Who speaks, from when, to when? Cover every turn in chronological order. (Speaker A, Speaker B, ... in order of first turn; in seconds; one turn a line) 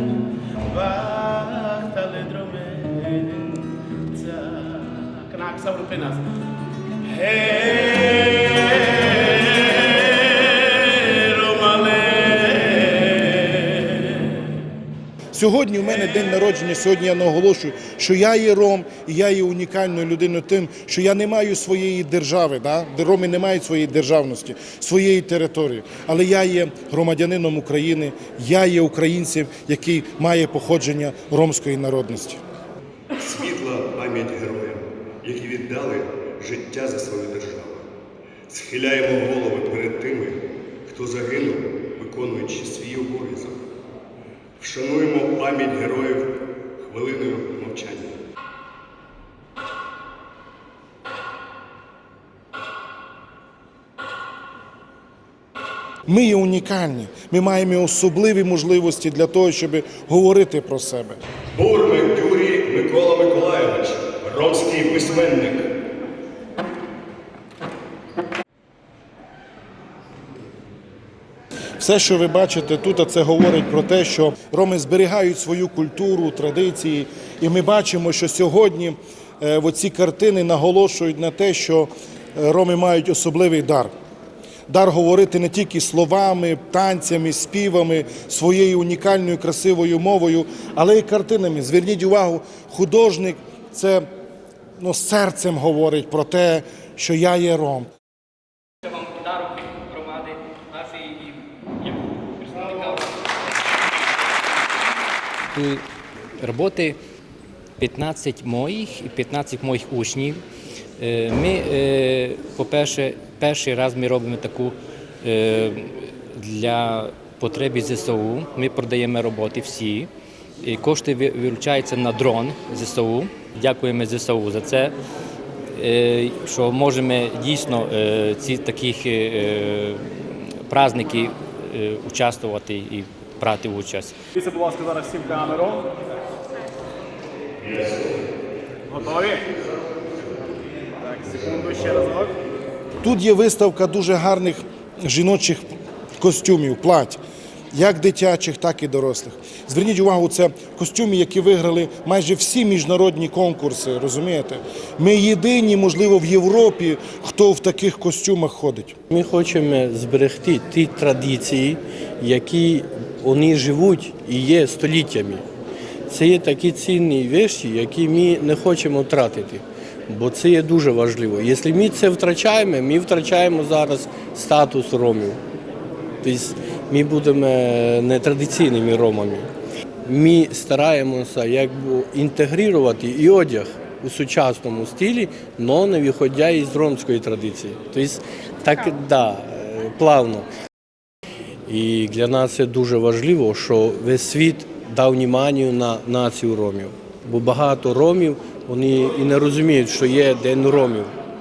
Speaker A: 0.7-6.2
Speaker A: 7.1-14.3
Speaker B: 15.3-32.4
Speaker C: 33.2-37.9
Speaker C: 38.5-43.6
Speaker C: 44.6-48.2
Speaker B: 56.1-61.2
Speaker C: 61.5-65.7
Speaker B: 71.8-83.9
Speaker B: 84.7-94.1
Speaker B: 94.8-97.9
Speaker D: 99.0-101.2
Speaker D: 102.5-103.0
Speaker D: 105.5-105.8
Speaker D: 106.4-107.0
Speaker D: 107.8-110.4
Speaker D: 111.0-120.1
Speaker D: 120.6-124.9
Speaker D: 125.7-134.1
Speaker E: 134.4-135.7
Speaker C: 137.7-138.0
Speaker E: 141.2-142.3
Speaker B: 143.0-145.6
Speaker B: 146.2-147.2
Speaker B: 147.7-158.9
Speaker F: 159.1-165.4
Speaker F: 166.1-175.4
Speaker F: 176.2-179.5
Speaker F: 180.1-190.4
Speaker F: 191.7-201.1